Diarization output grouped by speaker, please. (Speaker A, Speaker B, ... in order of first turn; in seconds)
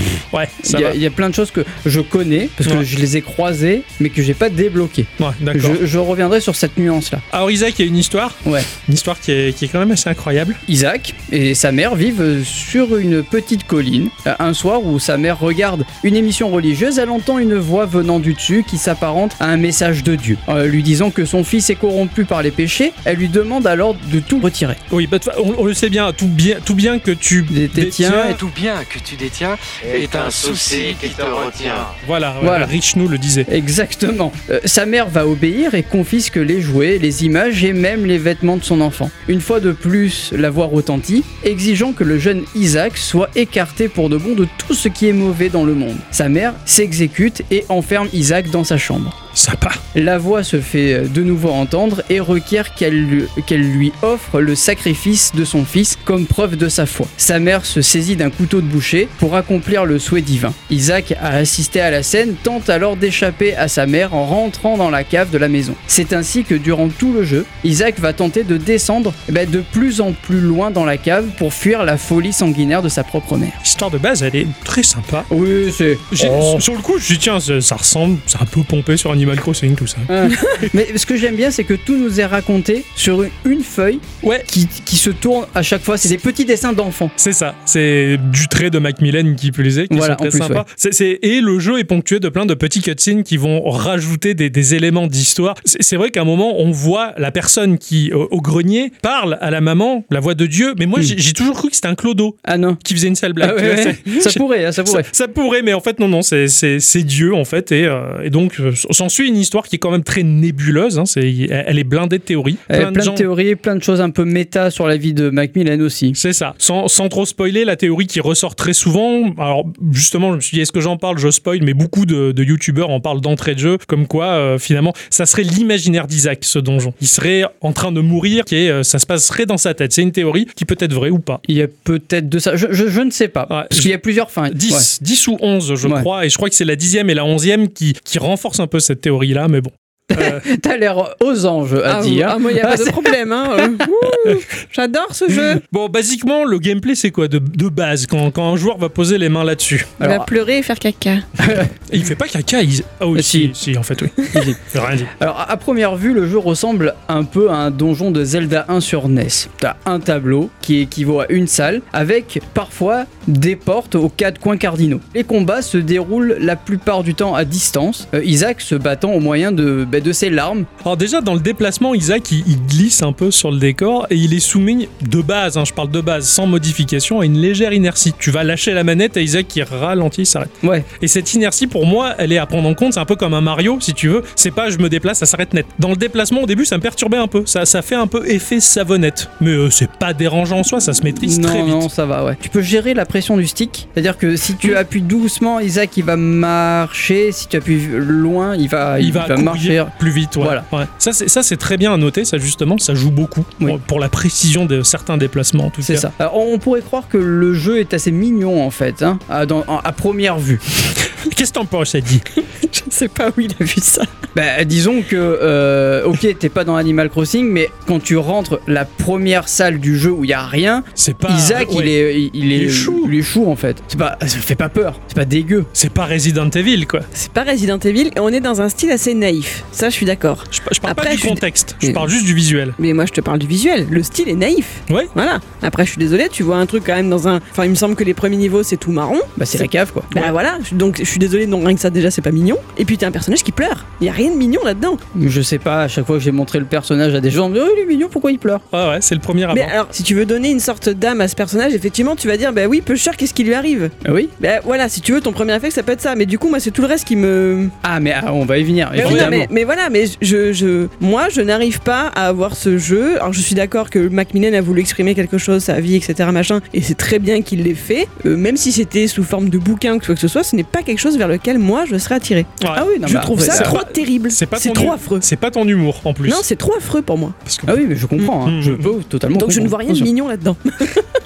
Speaker A: 0.3-1.0, 5.2-5.8, 7.3-10.6, 24.9-28.4, 32.0-33.5, 49.4-49.8, 73.6-75.3, 76.1-80.6, 87.2-113.3, 116.2-131.4, 133.5-133.9, 134.5-140.4, 145.6-150.0, 151.9-155.1, 170.8-191.9, 199.0-206.1, 211.1-212.3, 221.0-221.9, 222.5-223.1, 225.8-227.1, 230.5-232.8, 248.7-249.7, 259.0-259.4, 272.6-276.4, 277.5-277.8, 278.4-278.9
Speaker B: 0.6-7.2, 10.7-24.8, 27.5-28.4, 32.4-32.7, 33.5-49.2, 50.0-73.6, 75.3-76.6, 80.1-87.1, 89.9-90.6, 102.5-102.8, 103.4-105.1, 112.7-116.2, 131.5-134.9, 140.1-143.7, 150.0-150.3, 151.4-151.7, 153.2-153.6, 154.3-170.7, 180.6-180.9, 191.2-200.7, 205.8-210.6, 214.3-225.7, 239.4-240.3, 245.1-248.7, 254.0-254.3, 257.8-259.5, 272.7-273.8, 277.7-280.1
Speaker C: 28.4-31.9
Speaker D: 141.8-145.6, 150.0-151.2, 212.6-214.1, 227.1-232.1, 232.8-245.0, 249.5-257.7, 259.0-272.5, 273.1-275.2, 276.2-277.4, 279.3-281.1